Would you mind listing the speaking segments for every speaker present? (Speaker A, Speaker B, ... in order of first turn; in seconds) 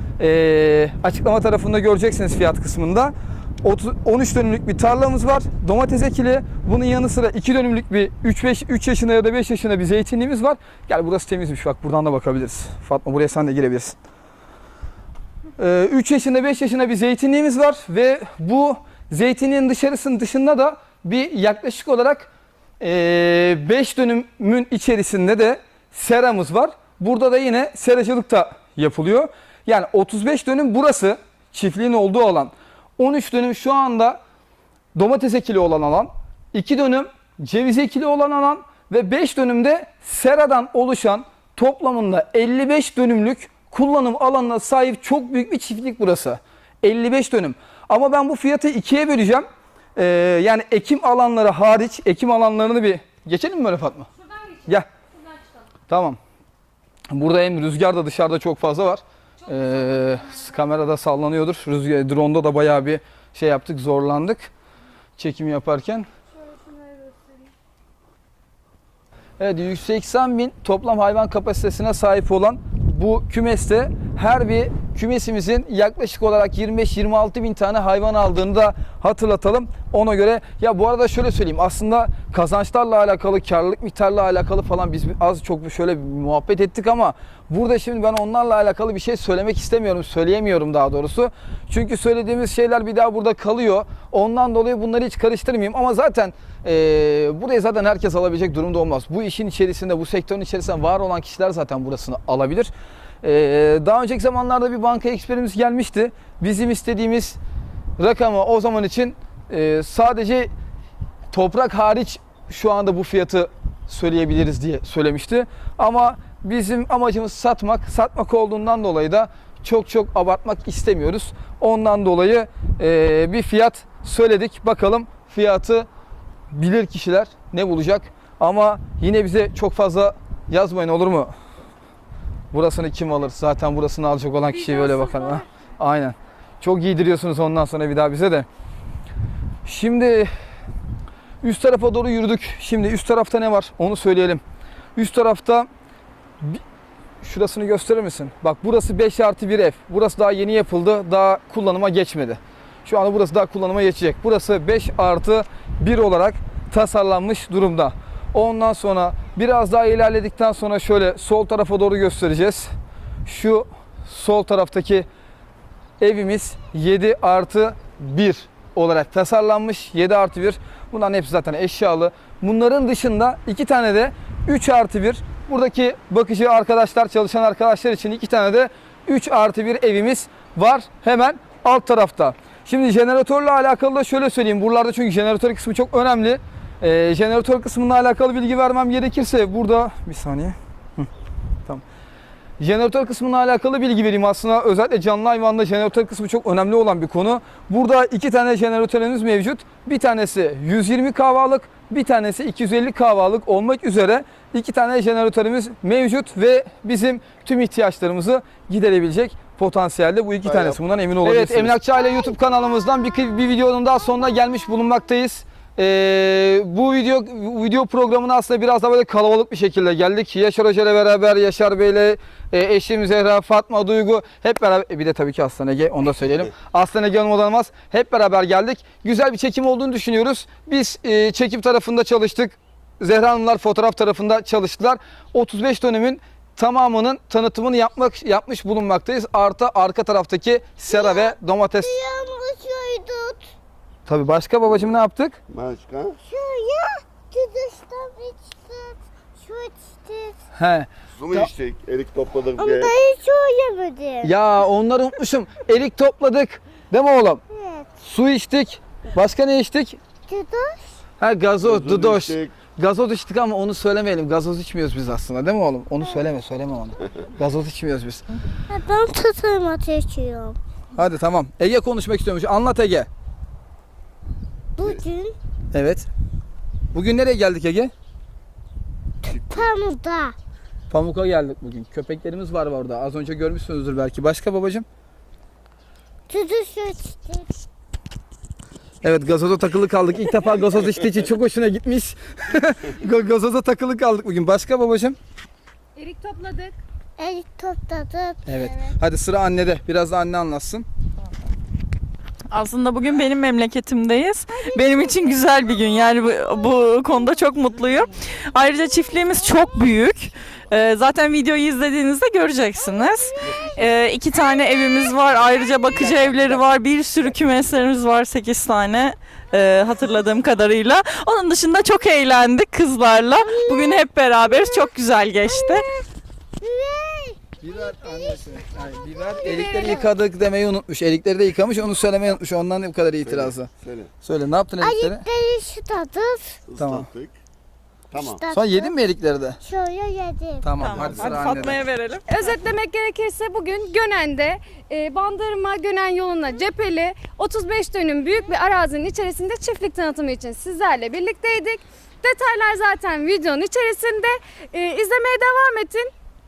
Speaker A: 0.2-14.0, 15.6-34.2, 35.0-54.9, 55.9-56.2, 57.1-64.5, 65.2-66.1, 69.4-107.4, 108.0-110.5, 111.3-125.9, 126.5-131.3, 132.5-138.5, 139.7-140.3, 141.4-144.4, 145.0-145.7, 147.2-162.7, 163.3-165.1, 166.0-191.1, 192.6-241.9, 244.1-245.4, 250.5-251.5, 254.2-257.4, 258.0-260.0, 261.2-268.2, 270.9-273.1, 275.7-276.1, 276.9-277.9, 280.9-284.9, 289.0-295.2, 298.5-300.9, 327.6-333.7, 334.2-335.2, 336.8-337.1, 338.5-339.6, 340.6-341.8
Speaker B: 66.5-67.3, 296.0-296.8, 342.3-356.1
Speaker C: 210.4-210.8, 211.4-211.7, 245.5-246.2, 251.2-252.9, 261.6-262.5, 333.2-334.1, 336.7-337.3, 338.1-338.4, 341.0-341.3
Speaker D: 240.9-243.5, 246.2-250.4, 252.6-254.3, 257.5-257.9, 260.3-261.0, 268.7-270.6, 274.8-275.4, 279.2-280.4, 286.3-287.6, 297.2-298.5, 304.6-305.4, 312.9-313.7, 323.4-324.9, 325.5-326.1, 326.6-327.4, 334.8-336.6, 338.1-338.9, 339.6-340.7
Speaker E: 302.5-325.9, 340.8-342.3